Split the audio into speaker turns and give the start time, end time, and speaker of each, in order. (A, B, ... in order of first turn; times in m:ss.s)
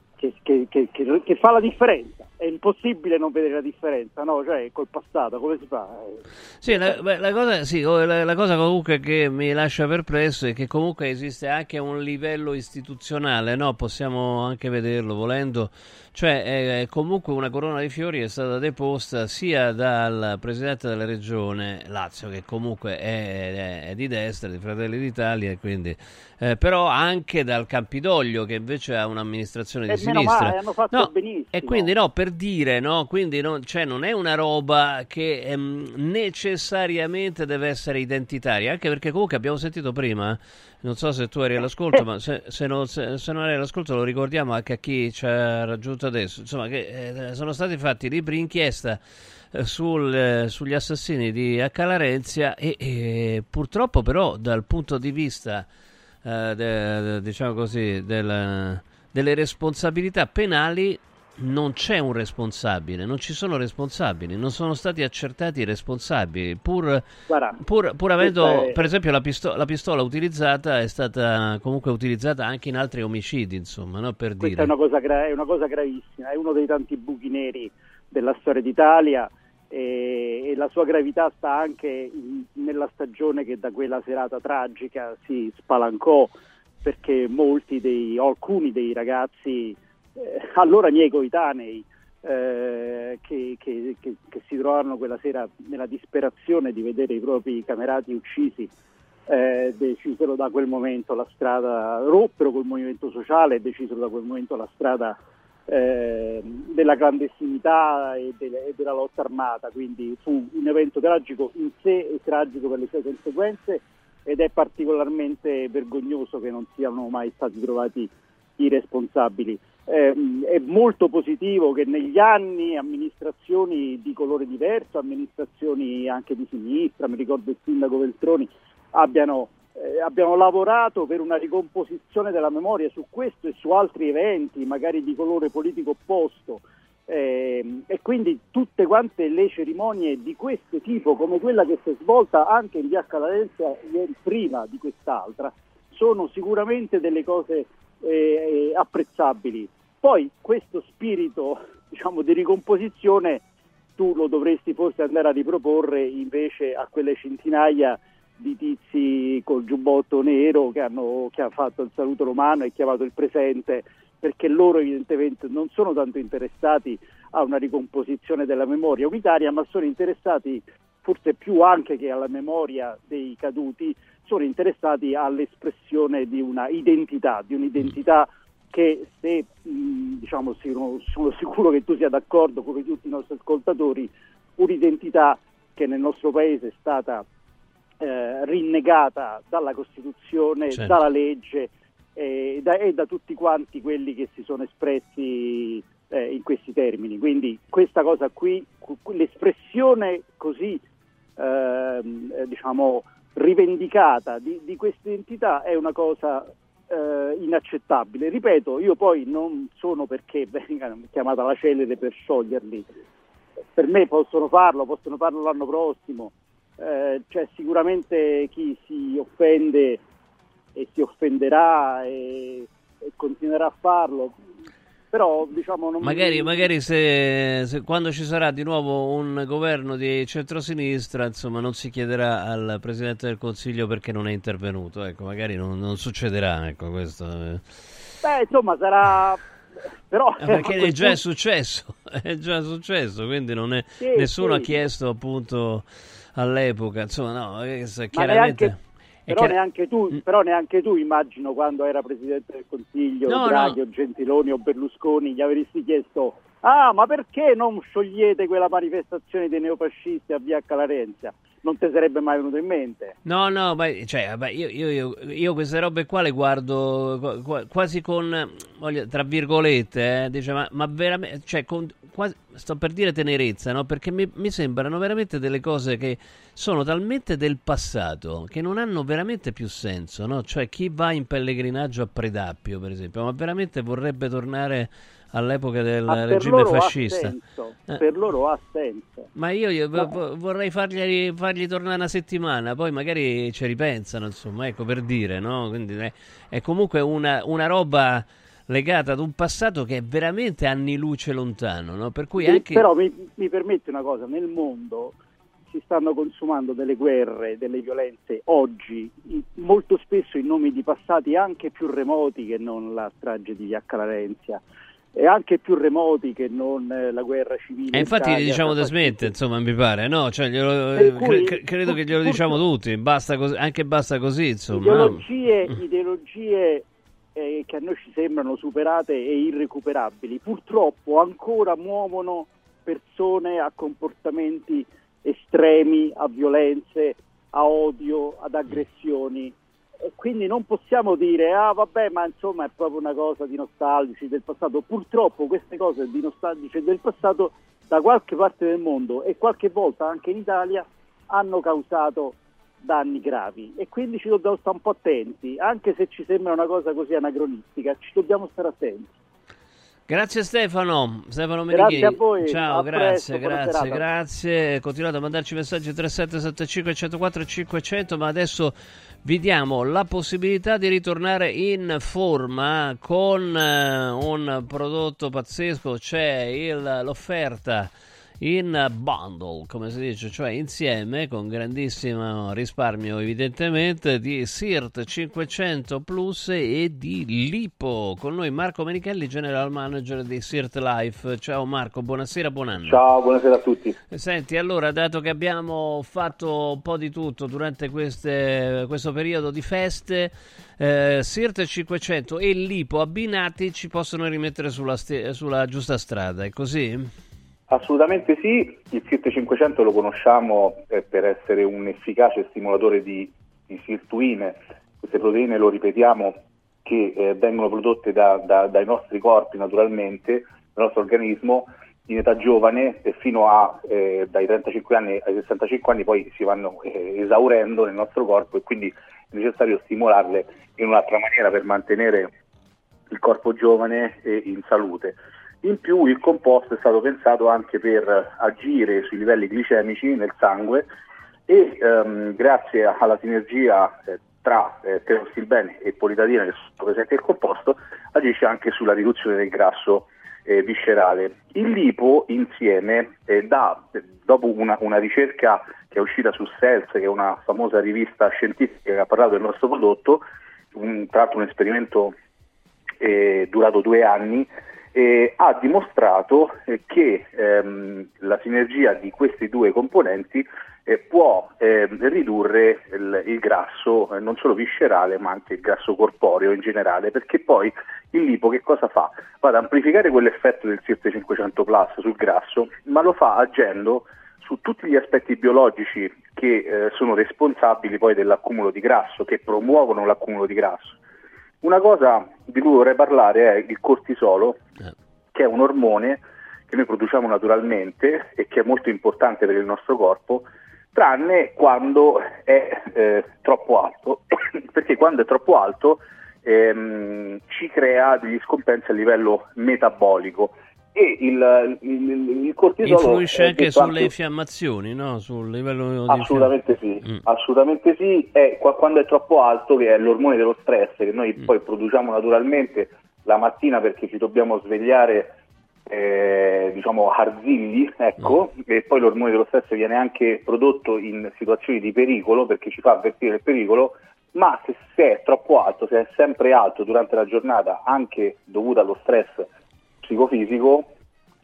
0:00.2-0:06.9 A
0:06.6-0:49.0 B
0:29.9-0:31.9 A
0:49.5-0:55.7 B
0:56.2-1:14.7 B
1:07.3-1:07.6 A
1:08.2-1:08.8 A
1:14.4-1:38.7 A
1:39.3-2:33.4 A
2:34.0-3:07.2 A
3:08.0-3:20.8 A
3:10.7-3:11.0 B
3:21.4-3:32.9 A
3:33.7-3:40.0 A
3:40.8-3:44.4 A
3:45.1-3:46.7 A
3:46.0-3:57.8 B
3:58.2-3:59.4 A
4:00.1-4:01.2 A
4:00.4-4:09.6 B
4:04.0-4:04.7 A
4:08.1-4:08.7 A
4:09.3-4:23.1 A
4:13.3-4:13.8 B
4:23.2-4:47.4 B
4:46.1-4:49.3 A
4:49.3-5:02.9 B
5:02.4-5:05.2 A
5:05.7-5:14.6 A
5:15.1-5:19.3 A
5:17.9-5:25.8 B
5:20.9-5:22.6 A
5:24.7-5:39.5 A
5:40.1-5:59.1 A
6:00.1-6:33.0 B
6:01.7-6:04.0 A
6:32.8-6:34.0 C
6:34.1-6:47.1 B
6:47.7-7:12.3 C
7:13.1-7:20.9 C
7:21.5-7:40.2 C
7:40.7-7:42.1 C
7:43.0-8:11.0 C
8:11.6-8:14.6 C
8:15.3-8:34.1 C
8:32.8-8:37.2 B
8:36.1-8:45.3 C
8:45.9-8:59.5 C
9:00.0-9:00.9 C